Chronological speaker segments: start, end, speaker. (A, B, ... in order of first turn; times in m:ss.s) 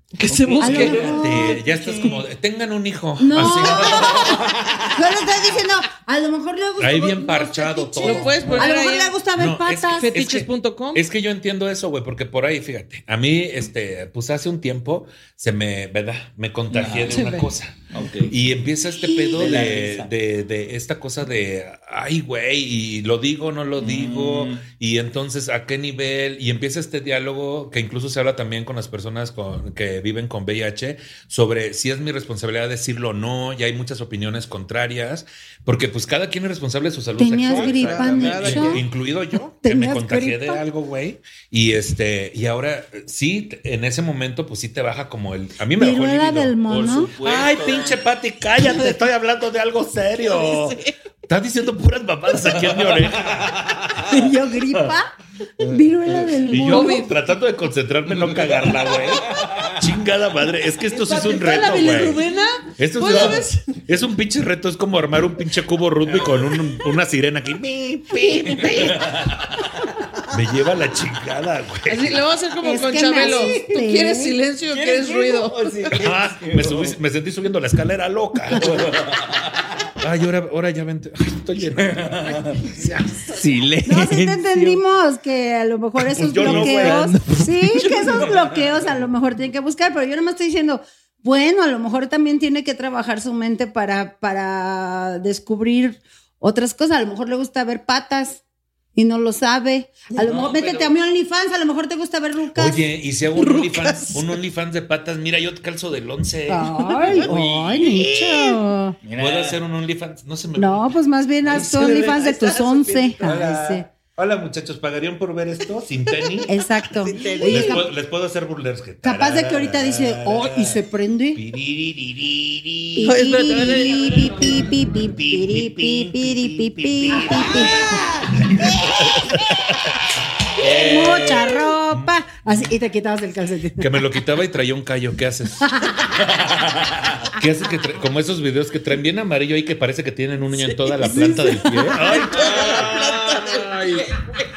0:00.2-0:02.1 A
0:00.2-0:04.4 B
0:00.3-0:01.2 C
0:00.6-0:02.2 D
0:03.2-0:10.1 D
0:03.4-0:05.0 C
0:06.8-0:08.6 B
0:08.0-0:09.2 A
0:09.3-0:17.8 B
0:09.9-0:11.0 A
0:16.7-0:17.4 C
0:17.1-0:17.5 A
0:17.9-0:18.4 C
0:18.3-0:53.8 B
0:19.1-0:19.6 D
0:19.4-0:20.1 C
0:23.8-0:24.6 C
0:37.2-0:38.8 D
0:37.4-0:38.8 C
0:37.5-0:38.9 A
0:39.6-0:40.6 D
0:45.7-0:47.1 D
0:46.9-0:48.0 C
0:50.2-0:50.9 A
0:52.5-0:54.9 C
0:54.1-0:57.1 D
0:55.6-0:56.4 C
0:56.5-1:02.2 B
0:56.6-0:57.1 A
0:58.2-0:59.7 C
1:00.9-1:03.8 A
1:02.8-1:09.1 B
1:03.0-1:03.4 C
1:06.1-1:06.4 C
1:08.2-1:08.7 A
1:08.6-1:09.6 C
1:10.3-1:12.2 B
1:11.9-1:15.7 A
1:12.6-1:14.4 D
1:14.6-1:16.9 C
1:15.9-1:18.9 B
1:18.5-1:19.9 C
1:20.0-1:22.9 B
1:21.8-1:22.8 C
1:23.3-1:24.8 C
1:23.8-1:38.4 D
1:26.0-1:27.9 B
1:26.4-1:28.6 C
1:38.9-1:42.8 D
1:40.2-1:40.9 C
1:42.5-1:47.3 B
1:46.5-1:49.0 D
1:47.2-1:48.2 C
1:49.0-1:49.6 C
1:49.2-1:52.2 B
1:50.6-1:53.9 D
1:51.4-1:53.4 A
1:53.2-1:56.6 B
1:56.2-1:57.8 A
1:56.4-1:57.9 D
1:57.3-2:00.8 B
1:59.0-2:01.4 D
2:01.4-2:04.5 B
2:02.9-2:08.0 D
2:03.0-2:04.5 A
2:05.1-2:09.9 B
2:07.8-2:08.1 A
2:10.6-2:12.7 B
2:10.6-2:14.0 D
2:13.8-2:15.7 B
2:15.6-2:16.0 D
2:16.2-2:17.2 C
2:17.3-2:22.8 B
2:21.0-2:22.2 D
2:21.9-2:24.2 A
2:22.0-2:24.1 C